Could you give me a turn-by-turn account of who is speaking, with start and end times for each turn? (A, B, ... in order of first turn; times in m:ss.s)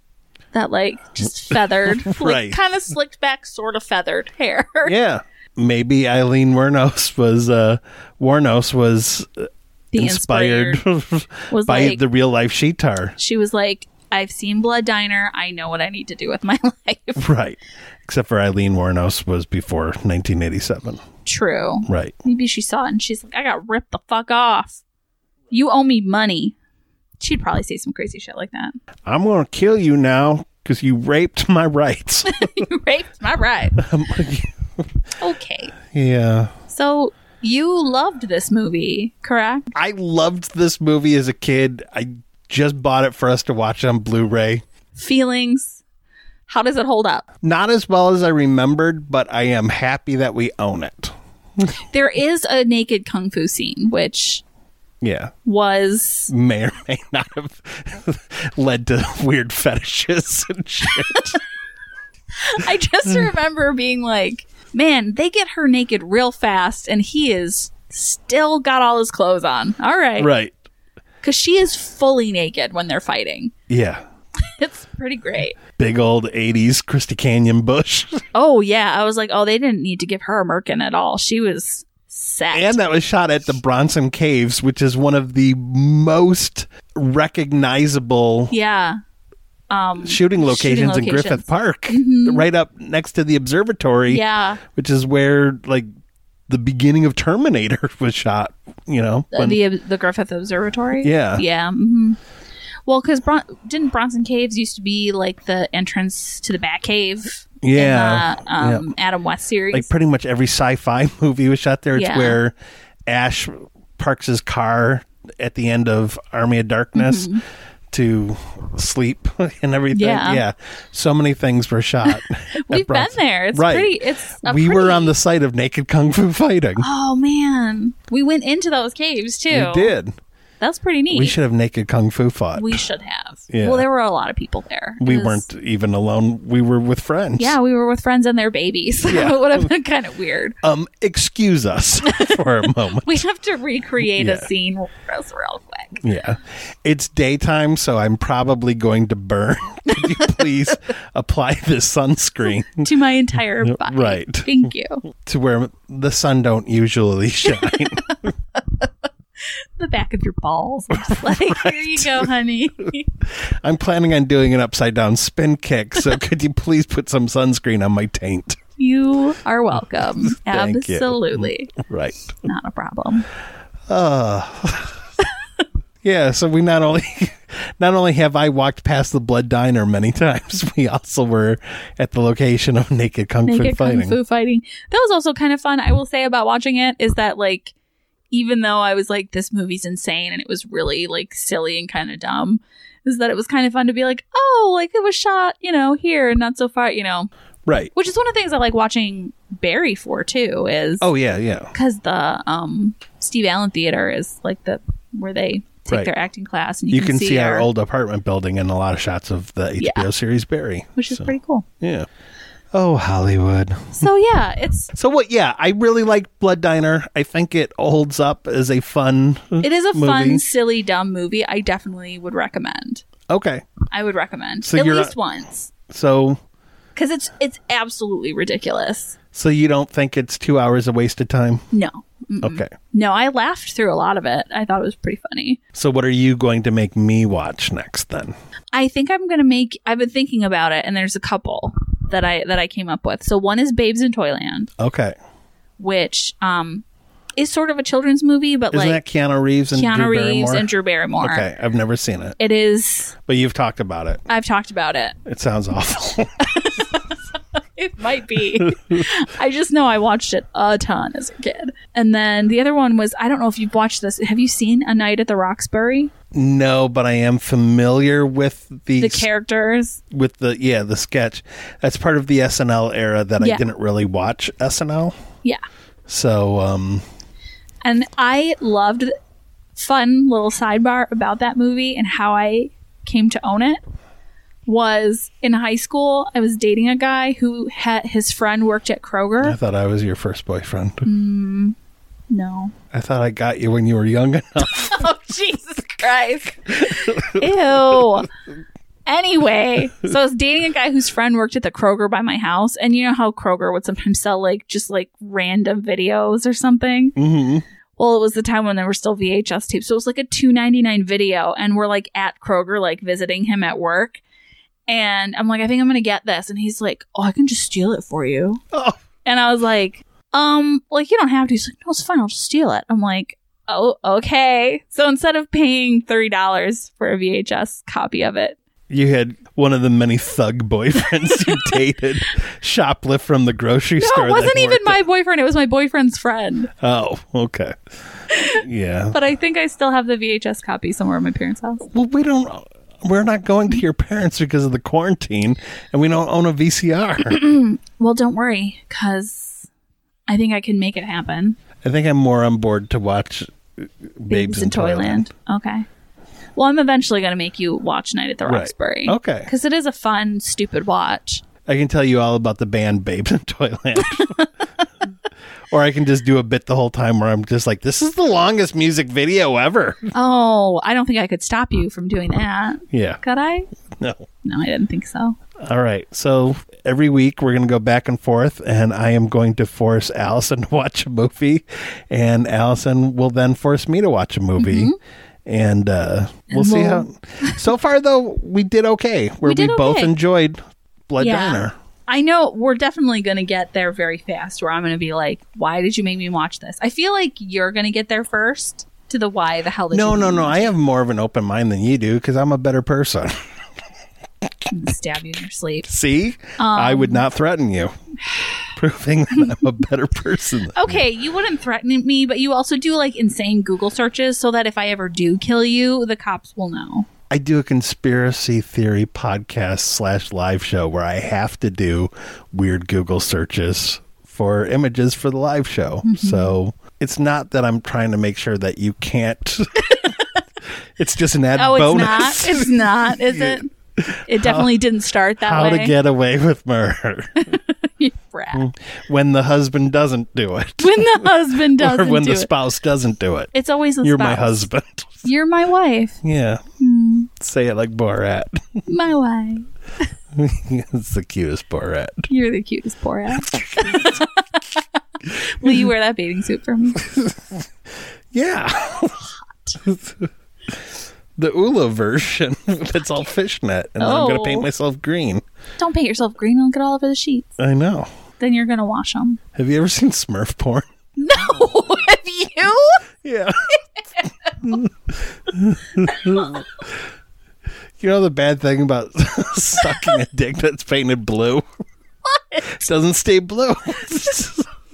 0:00.5-0:04.9 A
0:02.0-0:02.6 B
0:04.8-0:13.2 B
0:09.9-0:10.8 A
0:11.5-0:12.0 A
0:13.2-0:17.3 A
0:17.2-0:21.0 B
0:21.2-0:24.8 A
0:21.9-0:22.1 B
0:25.5-0:26.6 A
0:27.2-0:28.7 A
0:29.1-0:32.5 B
0:32.3-0:33.8 A
0:33.8-0:34.9 B
0:35.2-0:35.7 A
0:35.9-0:36.6 B
0:36.7-0:39.7 A
0:39.7-0:44.6 B
0:44.9-0:45.8 A
0:46.5-0:47.2 A
0:47.4-0:51.7 B
0:51.8-0:54.4 A
0:55.0-0:55.3 B
0:55.4-0:56.3 A
0:56.3-1:01.4 B
1:02.3-1:10.3 A
1:10.2-1:10.5 B
1:11.2-1:13.5 A
1:13.7-1:14.0 B
1:14.4-1:15.6 A
1:15.8-1:18.2 B
1:18.3-1:22.8 A
1:22.5-1:28.5 B
1:28.5-1:29.0 A
1:29.7-1:32.5 A
1:30.0-1:35.9 B
1:34.1-1:34.6 A
1:36.5-1:39.6 B
1:39.3-1:42.2 A
1:41.0-1:41.4 B
1:42.8-1:49.9 A
1:47.6-1:48.9 B
1:49.7-1:52.5 B
1:51.9-1:52.4 A
1:53.1-1:57.4 B
1:56.9-1:57.4 A
1:57.9-2:06.9 B
1:59.9-2:00.4 A
2:02.1-2:05.1 A
2:06.8-2:09.9 A
2:09.5-2:10.1 B
2:10.6-2:11.4 A
2:11.1-2:12.8 B
2:12.6-2:15.5 A
2:13.5-2:13.8 B
2:15.0-2:17.6 B
2:17.4-2:20.6 A
2:19.1-2:19.7 B
2:20.6-2:23.2 B
2:22.0-2:26.0 A
2:24.1-2:24.5 B
2:26.0-2:32.9 B
2:32.7-2:35.0 A
2:33.6-2:38.3 B
2:37.5-2:38.9 A
2:39.4-2:43.1 A
2:40.9-2:42.3 B
2:43.6-2:48.6 B
2:48.8-2:51.7 A
2:50.1-2:52.4 B
2:52.4-2:53.2 A
2:53.9-2:55.0 B
2:56.0-3:04.2 B
3:03.5-3:07.7 A
3:08.3-3:17.3 A
3:17.6-3:17.9 B
3:17.9-3:21.0 A
3:21.0-3:21.7 B
3:21.7-3:27.7 A
3:26.9-3:32.1 B
3:29.8-3:30.1 A
3:31.0-3:31.6 A
3:32.7-3:34.1 B
3:34.0-3:34.9 A
3:34.9-3:40.4 B
3:39.6-3:43.0 A
3:43.3-3:43.6 B
3:43.9-3:45.7 A
3:44.6-3:45.1 B
3:45.9-3:46.4 B
3:46.9-3:49.2 A
3:49.3-3:51.6 B
3:51.7-3:55.6 A
3:52.4-3:52.7 B
3:55.7-3:58.3 B
3:58.7-4:04.7 A
4:04.8-4:05.2 B
4:05.8-4:06.8 A
4:07.4-4:09.0 A
4:08.7-4:10.7 B
4:09.7-4:11.5 A
4:11.2-4:12.4 B
4:12.4-4:13.1 A
4:13.2-4:14.2 B
4:14.3-4:15.2 A
4:15.2-4:16.7 B
4:16.4-4:26.1 A
4:18.7-4:19.0 B
4:26.3-4:29.3 B
4:29.0-4:30.0 A
4:30.1-4:35.2 B
4:33.4-4:33.6 A
4:36.1-4:37.0 B
4:37.8-4:39.1 A
4:39.7-4:43.8 A
4:44.6-4:49.6 A
4:49.4-4:51.1 B
4:51.0-4:51.8 A
4:52.3-4:52.7 A
4:52.9-4:55.0 B
4:54.6-4:58.3 A
4:56.8-4:57.5 B
4:59.0-5:07.2 A
5:07.2-5:07.6 B
5:08.0-5:14.2 A
5:14.9-5:18.6 A
5:18.7-5:19.0 B
5:19.2-5:28.6 A
5:28.9-5:35.0 B
5:31.0-5:31.8 A
5:34.0-5:36.7 A
5:36.8-5:37.7 B
5:38.3-5:41.8 A
5:38.5-5:39.2 B
5:41.9-5:47.4 B
5:47.2-5:49.7 A
5:50.3-5:51.6 A
5:51.8-5:55.3 B
5:54.3-5:55.9 A
5:56.5-6:01.4 A
5:58.4-5:59.5 B
6:01.6-6:04.5 B
6:04.1-6:04.4 A
6:05.7-6:10.1 B
6:10.1-6:13.7 A
6:12.9-6:13.2 B
6:14.0-6:14.3 B
6:14.4-6:15.4 A
6:15.6-6:24.9 B
6:24.6-6:25.0 A
6:25.4-6:31.7 B
6:26.5-6:27.6 A
6:29.4-6:30.1 A
6:31.2-6:40.7 A
6:39.9-6:43.4 B
6:44.7-6:45.9 A
6:45.9-6:47.9 B
6:46.6-6:47.2 A
6:48.7-6:51.0 B
6:50.7-6:57.1 A
6:57.3-7:10.1 B
7:06.0-7:06.5 A
7:09.9-7:10.4 A
7:11.0-7:14.8 B
7:11.6-7:13.7 A
7:14.3-7:16.0 A
7:15.4-7:17.6 B
7:17.5-7:18.6 A
7:18.5-7:23.5 B
7:20.8-7:22.5 A
7:23.5-7:24.7 A
7:24.0-7:25.2 B
7:25.2-7:26.2 A
7:26.2-7:26.6 B
7:26.8-7:27.3 A
7:27.3-7:28.8 B
7:28.9-7:29.7 A
7:30.4-7:32.3 B
7:32.3-7:37.0 A
7:33.5-7:34.1 B
7:37.0-7:37.6 B
7:38.3-7:40.8 B
7:41.4-7:45.4 B
7:44.0-7:44.7 A
7:45.8-7:47.6 A
7:47.6-7:48.1 B
7:48.4-7:49.4 A
7:49.5-7:50.9 B
7:51.2-7:53.0 A
7:53.2-7:53.7 B
7:54.2-7:54.5 A
7:54.6-7:57.0 B
7:56.1-7:56.6 A
7:58.0-8:01.6 B
7:59.8-8:00.2 A
8:02.2-8:02.8 A
8:02.7-8:04.7 B